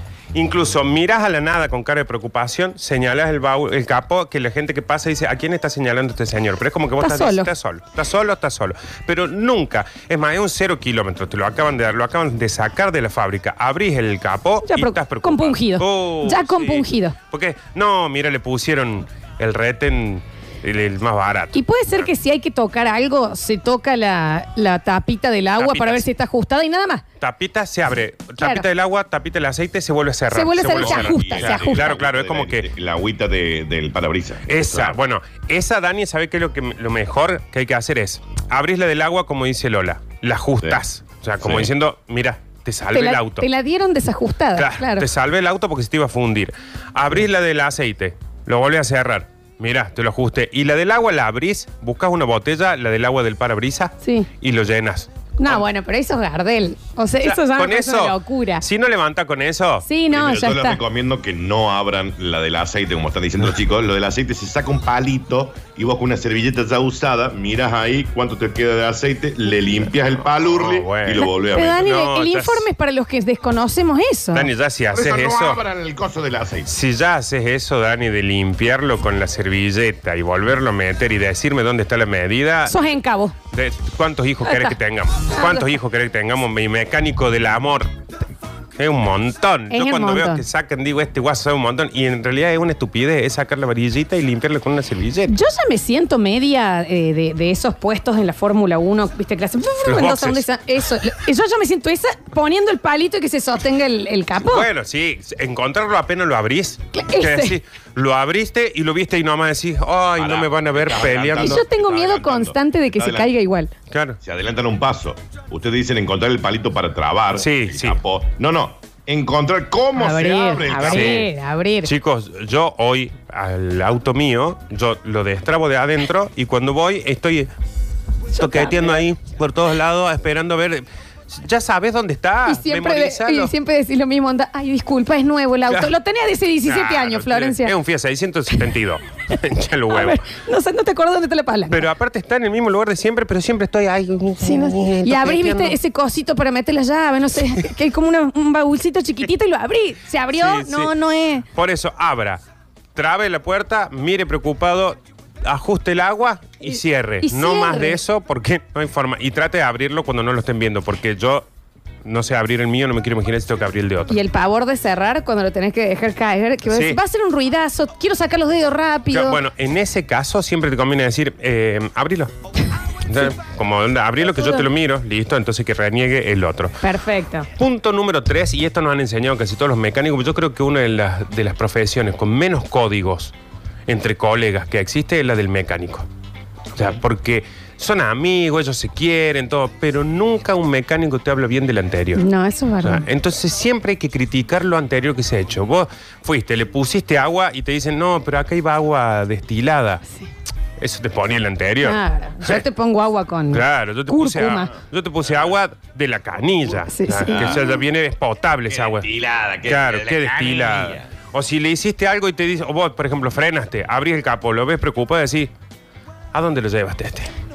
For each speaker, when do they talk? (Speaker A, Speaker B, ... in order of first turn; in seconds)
Speaker A: 0.3-22.1, 25.6-26.1, 27.2-32.7, 34.5-43.5, 44.6-55.6, 57.2-59.9, 70.4-72.7, 74.3-75.6, 76.7-82.9, 83.5-87.9, 88.8-95.3, 99.9-100.5, 104.4-111.6, 113.9-114.2, 117.4-118.0, 120.8-121.3, 121.8-127.5, 128.4-133.5, 136.7-140.2, 141.7-145.8, 150.3-150.9, 151.6-152.4, 152.9-161.5, 162.0-164.2, 166.7-167.0, 169.1-172.3, 173.1-176.8, 177.6-183.3, 183.9-186.1, 186.8-192.2, 192.8-200.0, 200.8-202.6, 203.5-209.1, 209.7-215.5, 216.3-217.3
Speaker B: 7.0-7.5, 14.7-17.1, 21.5-27.0, 28.4-28.7, 30.3-32.0, 42.9-45.1, 54.0-54.3, 55.4-58.6, 59.9-60.8, 71.2-74.5, 82.7-83.3, 84.5-84.8, 85.3-85.7, 89.7-90.4, 95.3-104.7, 106.9-107.6, 111.4-113.7, 120.0-121.9, 128.3-129.0, 132.5-137.7, 139.9-141.8, 144.4-151.5, 156.7-158.0, 164.1-169.4, 174.3-174.7, 176.8-177.5, 192.2-193.0, 201.8-204.7, 206.9-207.7
Speaker C: 30.7-35.0, 41.4-41.7, 60.1-71.8, 74.9-76.7, 110.2-113.3, 114.2-121.2, 205.3-205.5, 207.3-207.6, 208.7-211.1